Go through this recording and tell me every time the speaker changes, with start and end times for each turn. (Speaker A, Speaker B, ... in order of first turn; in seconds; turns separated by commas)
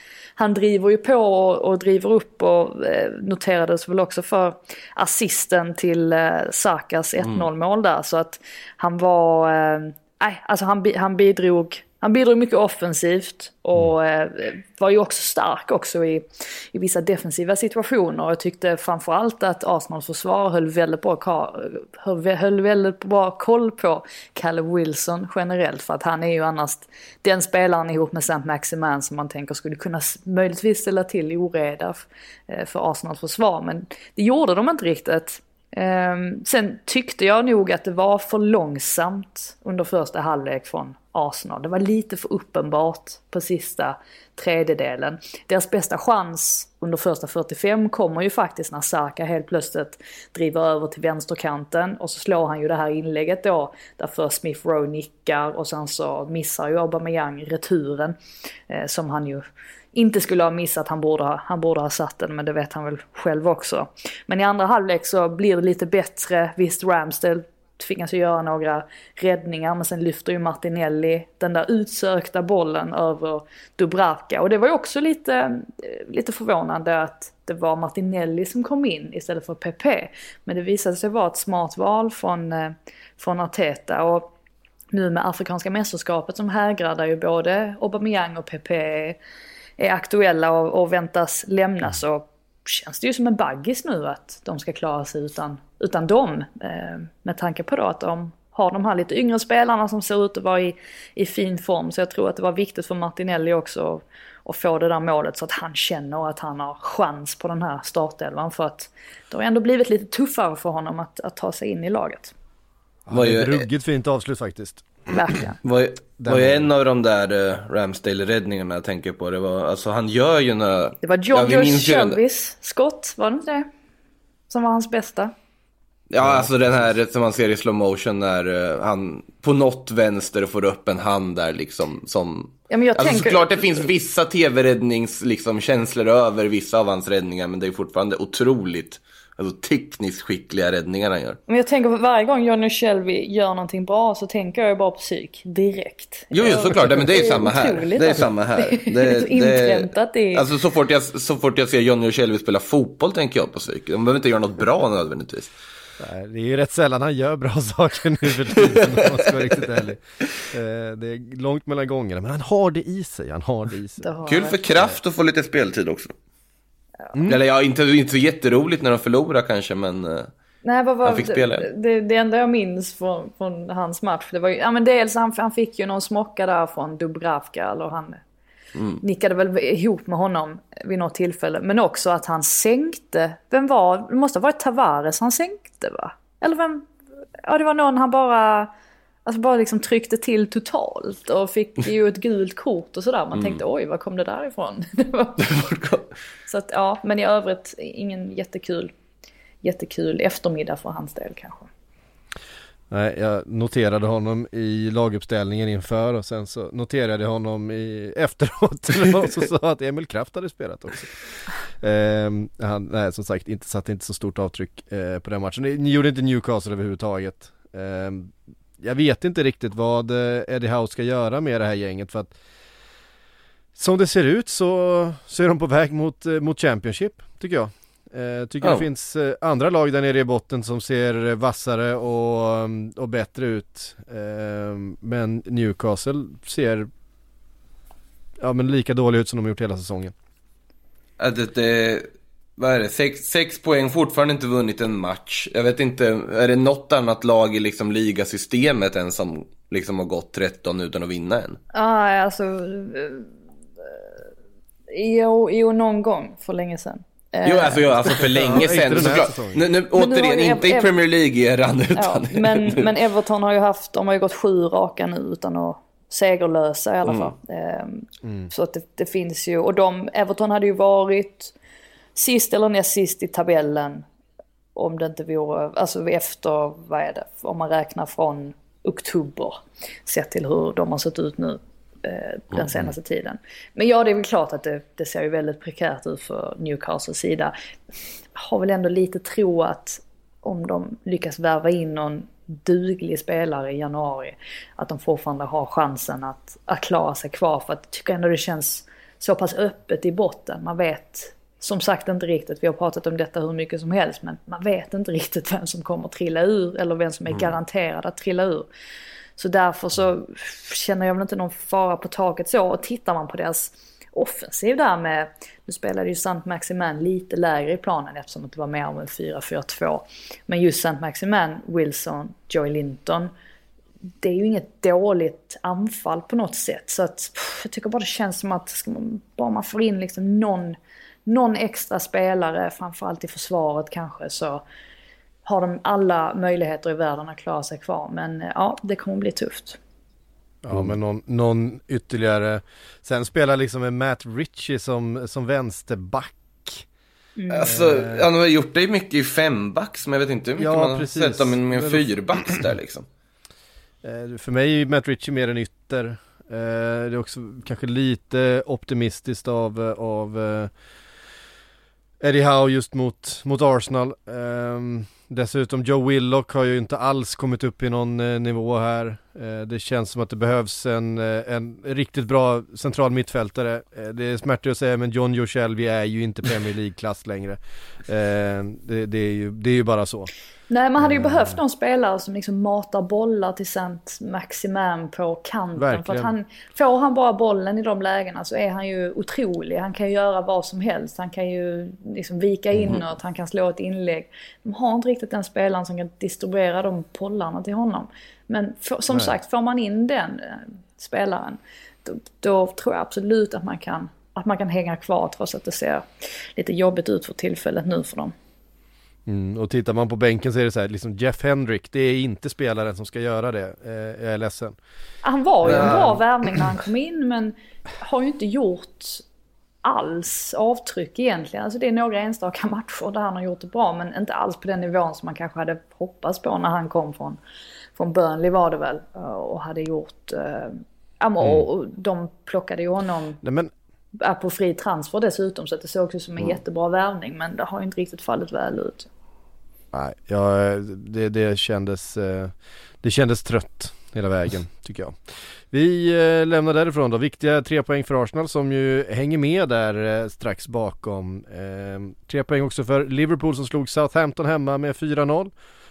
Speaker A: 0.4-58.2, Speaker A: 58.7-84.3, Speaker A: 84.9-89.2, Speaker A: 89.8-112.3, Speaker B: 113.1-115.0, Speaker C: 113.1-113.7, Speaker A: 115.1-115.6, Speaker C: 115.6-122.2, Speaker B: 116.2-116.7, Speaker A: 121.0-123.7, Speaker A: 124.5-125.3, Speaker C: 126.1-141.4, Speaker B: 126.2-126.9, Speaker A: 132.7-133.8, Speaker A: 141.5-150.4, Speaker C: 146.3-155.5, Speaker B: 156.0-164.0, Speaker A: 164.0-164.6, Speaker C: 164.3-166.1, Speaker B: 167.1-167.4, Speaker C: 167.3-170.3, Speaker A: 170.6-178.2, Speaker C: 171.0-171.7, Speaker C: 178.7-179.0, Speaker A: 179.0-186.9, Speaker A: 187.4-188.7, Speaker A: 189.3-195.7, Speaker C: 195.4-196.1, Speaker A: 196.5-198.9, Speaker A: 199.6-201.7, Speaker B: 202.9-222.3, Speaker B: 223.8-236.9, Speaker C: 228.6-228.9, Speaker B: 238.4-240.1, Speaker C: 241.2-251.6, Speaker A: 251.7-253.3, Speaker A: 254.9-258.2, Speaker C: 257.4-262.9, Speaker B: 258.3-259.6, Speaker A: 259.9-260.9, Speaker A: 261.9-271.5, Speaker C: 267.1-267.3, Speaker B: 268.2-268.5, Speaker A: 272.1-274.1, Speaker A: 274.8-287.5, Speaker A: 288.3-308.7, Speaker A: 309.4-323.3, Speaker A: 324.2-334.6, Speaker A: 335.4-339.8, Speaker B: 340.6-346.8, Speaker A: 347.4-347.7, Speaker C: 347.5-353.1, Speaker B: 347.6-348.2, Speaker B: 350.6-352.6, Speaker B: 354.0-360.7, Speaker B: 362.2-380.3, Speaker A: 380.7-406.1, Speaker B: 381.0-381.6, Speaker B: 385.8-386.3, Speaker A: 406.6-408.3, Speaker B: 409.3-414.8, Speaker A: 415.2-419.2, Speaker B: 415.6-416.2, Speaker C: 415.7-415.9, Speaker A: 419.8-427.4, Speaker A: 427.9-433.4, Speaker B: 433.4-433.7, Speaker A: 434.2-439.1, Speaker B: 439.9-445.2, Speaker B: 445.7-455.5